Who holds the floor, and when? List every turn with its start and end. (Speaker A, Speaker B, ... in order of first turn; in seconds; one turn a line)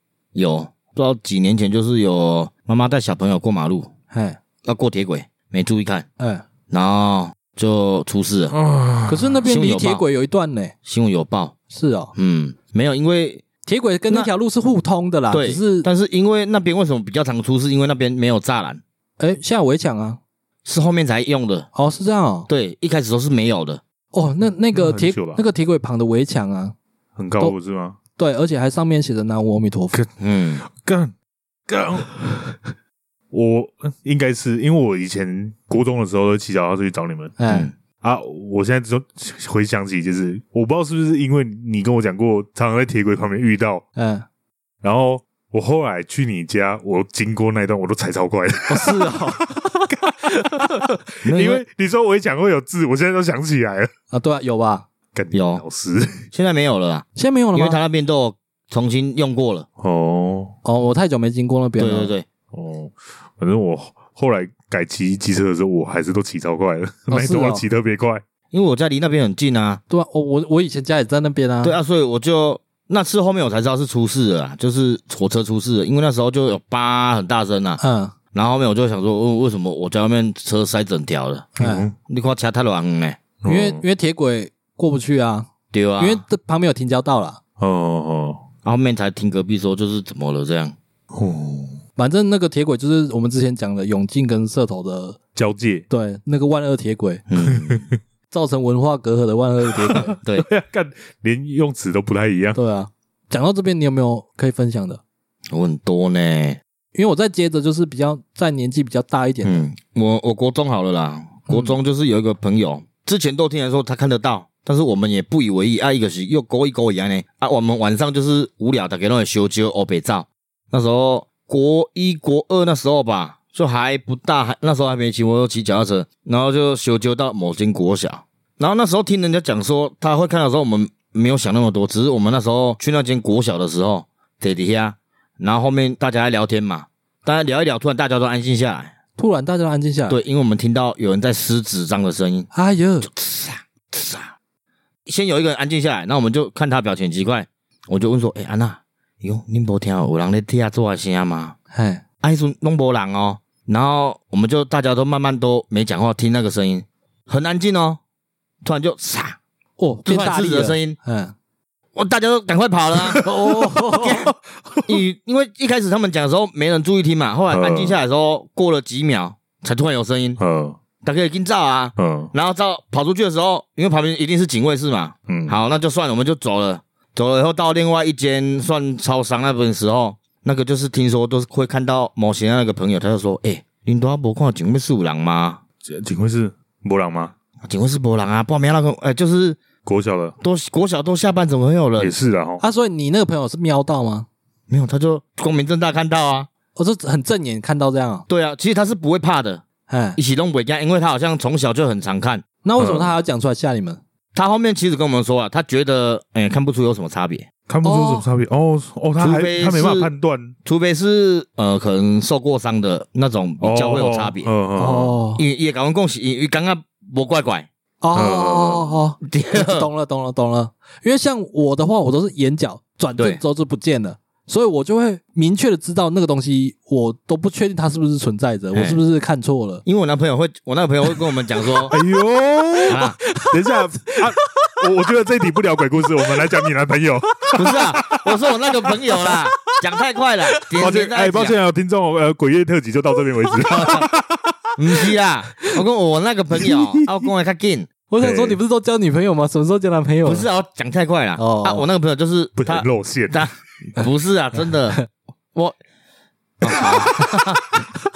Speaker A: 0.3-3.9
Speaker B: 4.1-4.4
Speaker A: 4.6-6.0
Speaker B: 6.2-6.4
Speaker A: 6.7-8.6
Speaker C: 8.5-9.4
Speaker B: 9.1-10.7
Speaker A: 9.4-10.0
Speaker A: 10.8-11.5
Speaker B: 11.7-12.1
Speaker A: 12.2-13.4
Speaker B: 13.7-15.9
Speaker A: 15.3-18.8
Speaker B: 19.2-20.2
Speaker A: 20.6-21.7
Speaker B: 21.7-22.5
Speaker A: 22.5-23.8
Speaker B: 24.1-26.8
Speaker C: 24.7-25.4
Speaker C: 27.1-28.0
Speaker B: 28.1-30.0
Speaker A: 30.2-30.6
Speaker C: 30.6-31.1
Speaker C: 31.7-32.6
Speaker C: 33.3-37.4
Speaker B: 37.4-37.7
Speaker C: 38.0-43.8
Speaker B: 43.9-44.2
Speaker C: 44.8-53.9
Speaker B: 48.7-49.5
Speaker A: 51.2-51.6
Speaker B: 54.1-54.8
Speaker C: 55.1-56.3
Speaker A: 55.3-55.6
Speaker A: 56.3-59.6
Speaker B: 57.1-57.8
Speaker C: 59.8-60.5
Speaker B: 60.6-62.1
Speaker A: 61.8-62.2
Speaker C: 62.5-68.2
Speaker B: 67.1-67.6
Speaker A: 68.5-69.8
Speaker B: 69.9-71.8
Speaker A: 71.6-77.8
Speaker B: 77.8-78.1
Speaker A: 78.3-81.5
Speaker B: 81.6-81.8
Speaker C: 81.6-81.9
Speaker A: 82.1-83.2
Speaker C: 83.4-83.8
Speaker B: 83.5-87.4
Speaker A: 85.7-86.2
Speaker C: 87.6-88.4
Speaker A: 88.6-90.7
Speaker C: 91.1-91.8
Speaker B: 92.0-95.2
Speaker C: 95.3-95.8
Speaker B: 95.9-97.2
Speaker A: 97.3-97.8
Speaker C: 97.4-97.8
Speaker B: 98.3-100.2
Speaker C: 99.8-102.6
Speaker B: 102.5-105.0
Speaker A: 105.5-106.6
Speaker B: 106.9-109.7
Speaker A: 109.4-138.9
Speaker B: 139.2-140.2
Speaker A: 140.1-142.5
Speaker B: 142.5-143.1
Speaker A: 143.0-144.3
Speaker A: 145.1-151.6
Speaker B: 151.7-152.0
Speaker A: 152.2-158.0
Speaker A: 158.6-159.4
Speaker B: 159.8-161.3
Speaker A: 160.0-161.0
Speaker A: 161.9-163.3
Speaker B: 163.1-164.2
Speaker A: 163.9-164.3
Speaker A: 164.8-170.4
Speaker C: 167.5-168.0
Speaker C: 170.4-170.8
Speaker A: 171.0-185.6
Speaker C: 172.0-172.3
Speaker C: 175.3-175.6
Speaker C: 185.8-187.3
Speaker A: 187.6-189.6
Speaker C: 189.8-190.3
Speaker A: 190.4-192.1
Speaker C: 192.0-192.6
Speaker B: 192.6-194.3
Speaker A: 194.7-196.5
Speaker B: 196.7-198.2
Speaker A: 198.3-199.6
Speaker B: 199.9-200.2
Speaker A: 200.2-202.4
Speaker B: 202.6-204.0
Speaker C: 202.8-203.1
Speaker A: 204.3-207.5
Speaker C: 207.7-210.6
Speaker B: 207.8-208.3
Speaker A: 209.2-210.1
Speaker A: 210.6-214.5
Speaker C: 213.6-215.1
Speaker B: 214.8-215.4
Speaker A: 215.4-217.7
Speaker B: 218.0-229.8
Speaker C: 218.1-219.0
Speaker A: 219.2-219.9
Speaker A: 228.7-229.0
Speaker A: 229.8-231.9
Speaker C: 231.9-238.5
Speaker A: 232.9-233.2
Speaker B: 233.2-234.7
Speaker A: 237.6-241.6
Speaker B: 238.9-239.7
Speaker C: 240.7-244.6
Speaker A: 243.7-244.1
Speaker A: 244.8-247.9
Speaker C: 246.6-247.3
Speaker B: 248.1-250.5
Speaker C: 248.2-248.6
Speaker A: 250.2-255.8
Speaker B: 251.4-251.8
Speaker C: 252.6-253.5
Speaker A: 256.6-257.3